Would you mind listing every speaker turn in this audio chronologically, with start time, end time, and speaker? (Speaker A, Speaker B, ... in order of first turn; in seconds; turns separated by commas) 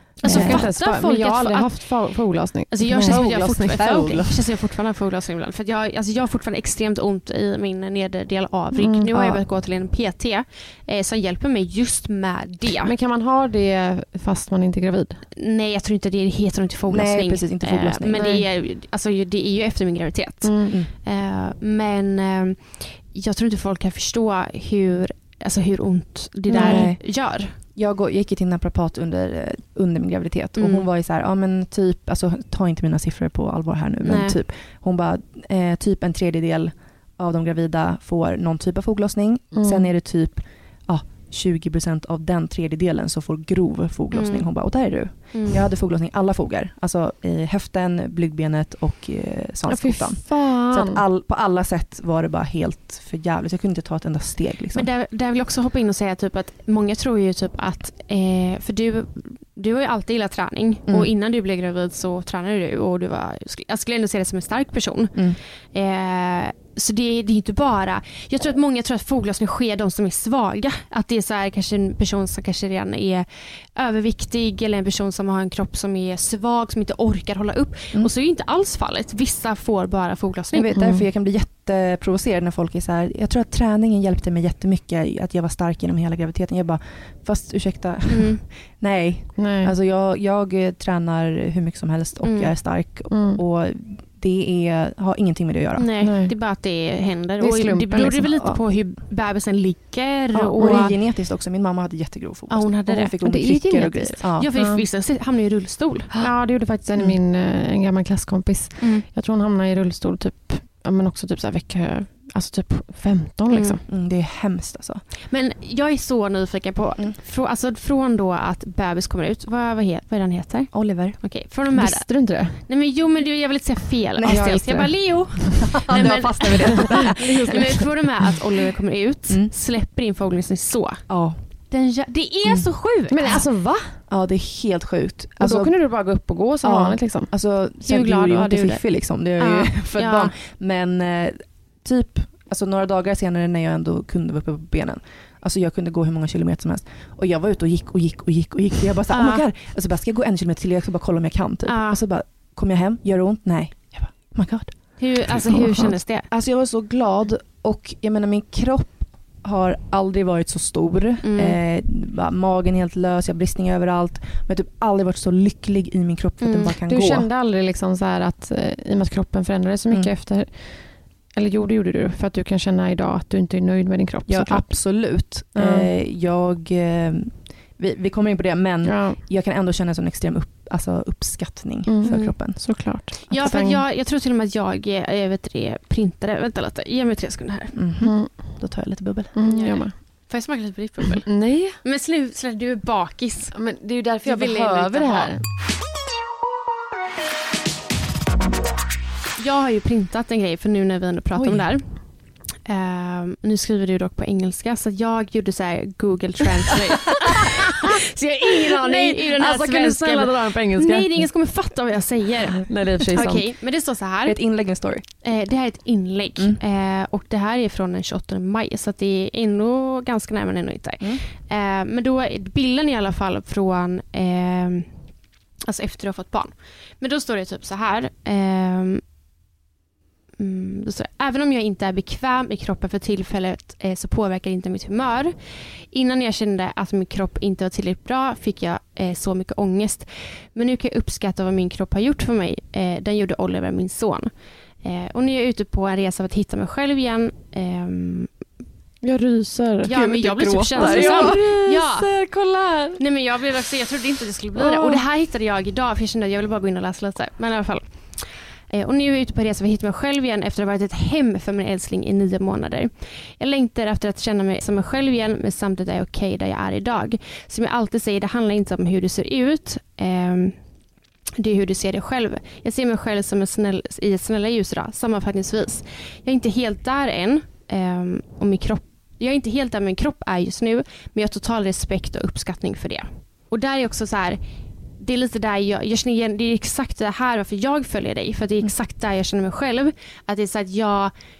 Speaker A: 0.2-3.2, Speaker B: 0.2-12.9, Speaker C: 0.3-0.7, Speaker C: 2.9-4.6, Speaker A: 8.8-9.1, Speaker C: 9.1-9.4, Speaker A: 12.8-15.2, Speaker B: 15.3-27.6, Speaker C: 16.9-18.4, Speaker A: 18.1-18.4, Speaker A: 20.4-20.8, Speaker A: 26.5-26.9, Speaker C: 26.5-27.1, Speaker C: 27.8-54.9, Speaker B: 30.6-30.9, Speaker B: 34.0-34.4, Speaker A: 39.5-39.9, Speaker B: 44.1-45.7, Speaker A: 49.7-51.0, Speaker B: 54.7-80.8, Speaker C: 80.5-95.9, Speaker A: 80.7-81.0, Speaker B: 88.1-88.5, Speaker A: 89.4-89.7, Speaker B: 92.2-92.5, Speaker A: 93.1-93.4, Speaker B: 95.8-101.0, Speaker A: 96.0-96.3, Speaker A: 97.4-98.3, Speaker C: 98.3-98.6, Speaker C: 100.3-104.5, Speaker A: 100.6-100.9, Speaker B: 102.5-103.2, Speaker A: 103.2-104.8, Speaker B: 104.3-106.4, Speaker A: 106.2-113.8, Speaker B: 108.8-109.1, Speaker B: 113.5-113.8, Speaker C: 113.9-115.0, Speaker B: 115.3-131.0, Speaker C: 120.7-121.2, Speaker A: 121.7-122.6, Speaker C: 124.2-124.7, Speaker A: 124.3-127.8, Speaker C: 125.6-127.9, Speaker C: 131.1-131.4, Speaker B: 131.7-133.4, Speaker A: 133.1-134.0, Speaker C: 134.1-135.8, Speaker A: 135.4-137.3, Speaker C: 136.6-167.3, Speaker B: 137.8-140.3, Speaker B: 149.1-149.4, Speaker B: 151.7-152.0, Speaker B: 155.0-156.3, Speaker B: 161.2-161.6, Speaker B: 166.4-166.7, Speaker A: 166.9-175.9, Speaker C: 174.3-183.6, Speaker A: 178.8-179.2, Speaker A: 181.9-183.8, Speaker B: 182.0-182.4, Speaker B: 183.3-187.8, Speaker C: 187.8-189.3, Speaker A: 188.0-188.8, Speaker A: 189.3-190.0, Speaker B: 189.5-193.6, Speaker A: 191.3-191.8, Speaker A: 193.5-195.4, Speaker B: 194.2-195.3, Speaker B: 199.4-202.0, Speaker C: 201.3-201.7, Speaker B: 202.7-224.9, Speaker A: 209.0-211.3, Speaker A: 212.7-213.4, Speaker C: 214.2-215.0, Speaker C: 221.0-221.2, Speaker B: 225.6-229.0, Speaker B: 230.4-235.3, Speaker B: 235.9-248.3, Speaker A: 249.0-249.9, Speaker B: 249.8-252.1, Speaker C: 249.9-252.1, Speaker A: 250.7-253.0, Speaker B: 253.0-270.5, Speaker C: 254.6-255.0, Speaker B: 271.4-284.4, Speaker B: 285.0-291.1